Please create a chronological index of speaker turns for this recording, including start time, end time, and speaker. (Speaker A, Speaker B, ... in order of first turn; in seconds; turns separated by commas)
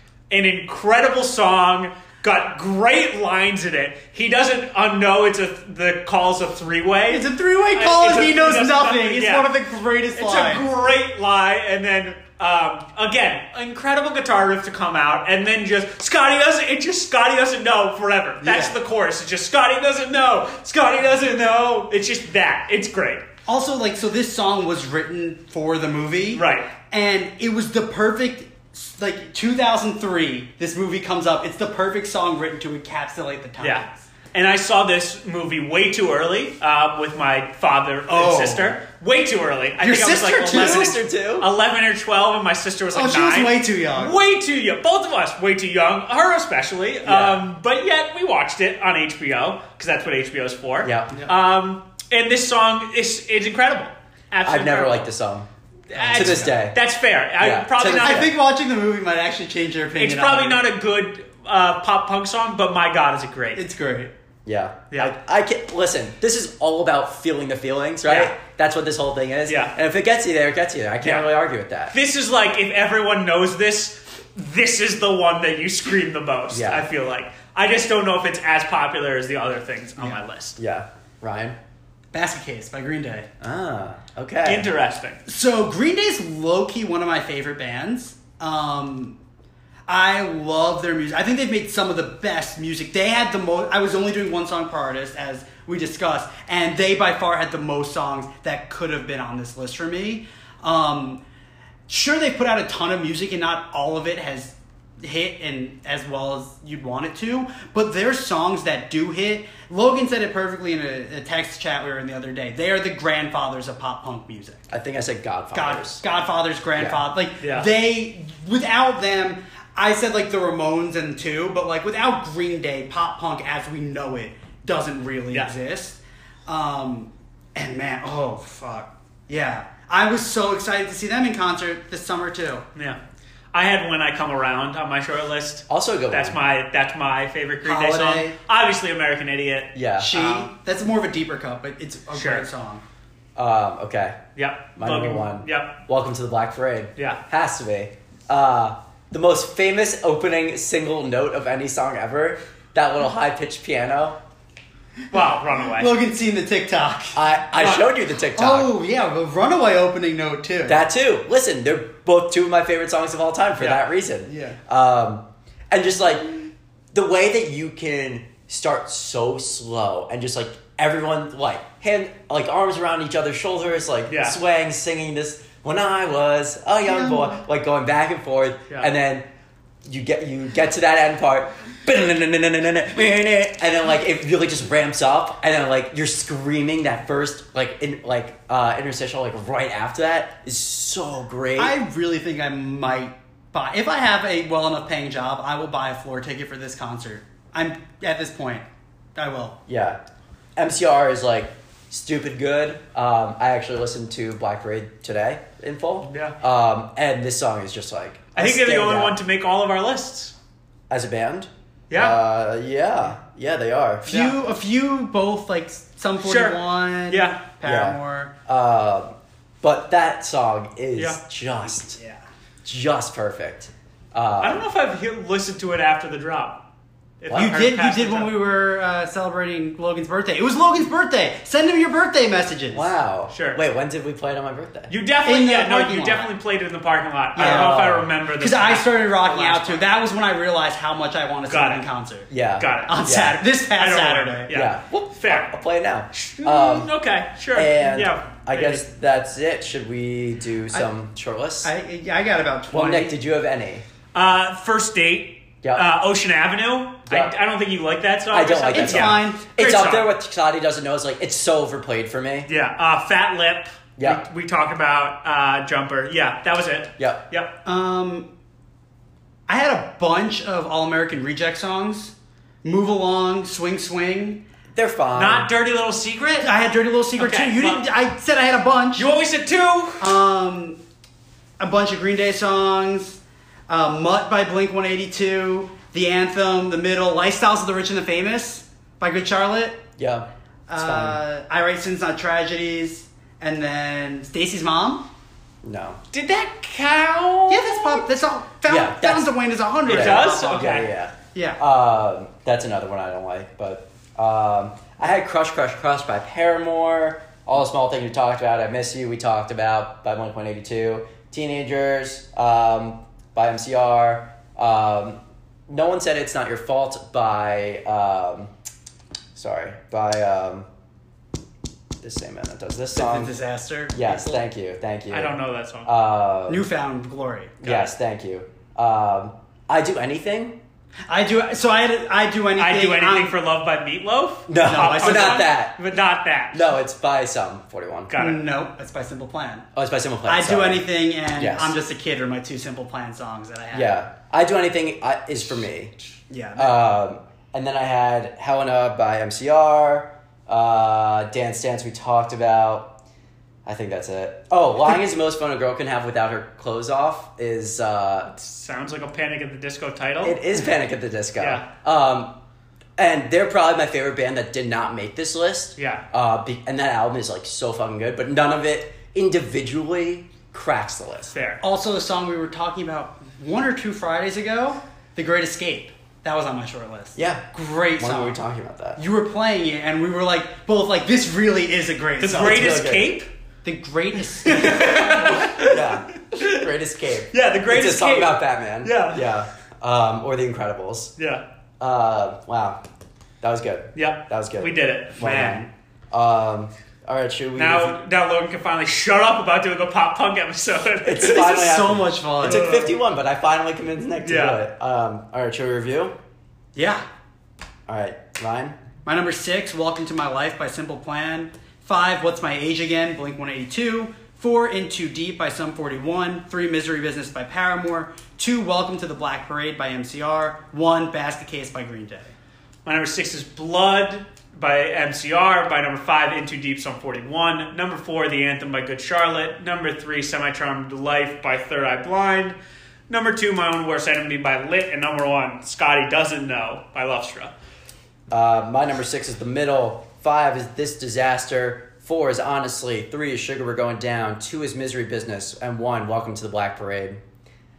Speaker A: 0.3-9.5, Speaker B: 7.1-10.7, Speaker A: 10.2-23.2, Speaker B: 18.4-18.8, Speaker B: 23.5-33.9, Speaker A: 26.3-26.7, Speaker A: 33.6-55.1, Speaker B: 38.1-38.8, Speaker B: 39.8-40.9, Speaker C: 40.5-41.5, Speaker B: 42.9-44.2, Speaker C: 47.0-47.4, Speaker C: 50.8-51.2, Speaker C: 54.4-55.5, Speaker A: 55.9-58.3, Speaker B: 55.9-56.6, Speaker C: 56.1-56.8, Speaker C: 57.4-58.3, Speaker B: 58.0-60.6, Speaker A: 60.0-63.6, Speaker B: 63.5-64.1, Speaker C: 64.5-72.0, Speaker A: 68.0-68.3, Speaker A: 69.5-69.7, Speaker A: 71.0-71.3, Speaker A: 71.9-80.6, Speaker C: 76.5-76.9, Speaker C: 80.6-81.6, Speaker B: 82.1-83.3, Speaker C: 83.4-84.7, Speaker A: 84.4-85.2, Speaker B: 85.2-89.2, Speaker B: 89.9-101.2, Speaker B: 101.9-114.7, Speaker C: 114.7-116.0, Speaker B: 115.5-132.6, Speaker C: 116.8-117.0, Speaker A: 117.4-117.7, Speaker A: 133.5-140.4, Speaker C: 135.7-136.4, Speaker B: 137.6-138.3, Speaker C: 139.7-140.2, Speaker B: 140.0-142.8, Speaker A: 142.1-142.4, Speaker C: 143.3-144.2, Speaker A: 144.3-145.8, Speaker C: 144.8-154.2, Speaker A: 155.1-155.9, Speaker B: 155.6-157.2, Speaker C: 157.1-158.7, Speaker A: 157.6-157.8, Speaker B: 158.3-160.8, Speaker C: 160.7-179.3, Speaker B: 163.6-164.6, Speaker A: 174.1-174.3, Speaker B: 176.9-177.4, Speaker C: 179.8-191.8, Speaker B: 191.6-198.6, Speaker B: 199.2-199.6, Speaker C: 199.7-200.0, Speaker C: 200.6-209.2, Speaker A: 206.0-206.3, Speaker A: 208.3-210.3, Speaker C: 210.9-214.2, Speaker A: 211.9-212.2, Speaker B: 214.1-218.3, Speaker A: 214.1-214.3, Speaker A: 216.2-217.4, Speaker C: 217.6-222.0, Speaker C: 222.6-224.6, Speaker A: 224.4-226.6, Speaker A: 227.2-228.3, Speaker B: 227.3-232.9, Speaker C: 232.7-234.9, Speaker A: 233.3-233.6, Speaker A: 234.9-239.9, Speaker B: 235.2-236.3, Speaker B: 237.3-237.8, Speaker C: 237.4-238.1, Speaker B: 238.4-242.3, Speaker A: 241.5-241.8, Speaker C: 242.3-243.4, Speaker A: 242.6-243.0, Speaker B: 242.8-244.5, Speaker A: 243.6-245.5, Speaker C: 244.5-246.9, Speaker A: 246.1-248.8, Speaker C: 247.5-251.7, Speaker B: 251.6-253.1, Speaker C: 252.7-253.8, Speaker A: 254.1-260.1, Speaker C: 258.3-262.5, Speaker B: 258.7-259.4, Speaker A: 262.5-267.5, Speaker C: 264.0-264.2, Speaker B: 267.6-268.3, Speaker B: 269.5-274.4, Speaker C: 274.7-275.5, Speaker A: 275.1-276.5, Speaker B: 276.4-279.1, Speaker A: 277.2-277.8, Speaker A: 278.9-280.2, Speaker B: 280.0-280.8, Speaker B: 281.6-289.8, Speaker C: 290.0-290.3, Speaker B: 290.7-295.1, Speaker C: 290.8-291.2, Speaker C: 295.6-296.0, Speaker A: 296.1-298.1, Speaker B: 297.5-300.7, Speaker C: 298.7-299.3, Speaker A: 299.9-300.9, Speaker C: 299.9-318.5, Speaker B: 301.3-301.6, Speaker C: 319.3-320.7, Speaker C: 322.0-323.3, Speaker B: 322.9-324.3, Speaker C: 323.9-326.6, Speaker A: 325.1-325.9, Speaker B: 326.5-327.6, Speaker C: 327.6-330.6, Speaker A: 327.6-327.9, Speaker B: 331.1-333.4, Speaker A: 332.6-336.7, Speaker C: 334.5-335.8, Speaker B: 334.6-335.4, Speaker C: 336.5-338.1, Speaker A: 338.1-338.4, Speaker B: 338.2-339.6, Speaker C: 339.7-341.7, Speaker B: 340.2-343.9, Speaker C: 343.7-345.9, Speaker B: 346.3-346.8, Speaker C: 346.6-352.9, Speaker C: 353.6-358.3, Speaker A: 358.3-360.4, Speaker C: 360.2-362.3, Speaker A: 361.4-361.6, Speaker C: 363.0-371.3, Speaker A: 365.8-366.0, Speaker A: 371.3-371.6, Speaker B: 371.6-378.4, Speaker C: 377.1-377.4, Speaker C: 378.0-379.0, Speaker B: 379.0-382.7, Speaker A: 382.2-383.3, Speaker C: 382.3-383.2, Speaker B: 383.6-385.6, Speaker A: 384.4-386.7, Speaker C: 385.6-391.1, Speaker A: 387.3-389.3, Speaker C: 391.8-392.8, Speaker C: 393.4-398.0, Speaker A: 393.9-395.7, Speaker A: 397.6-401.7, Speaker C: 401.0-406.1, Speaker B: 401.2-402.9, Speaker A: 402.4-402.9, Speaker A: 404.2-404.6, Speaker B: 406.7-407.0, Speaker C: 407.9-408.8, Speaker B: 409.0-422.3, Speaker A: 422.8-432.6, Speaker A: 433.1-437.5, Speaker C: 438.3-447.2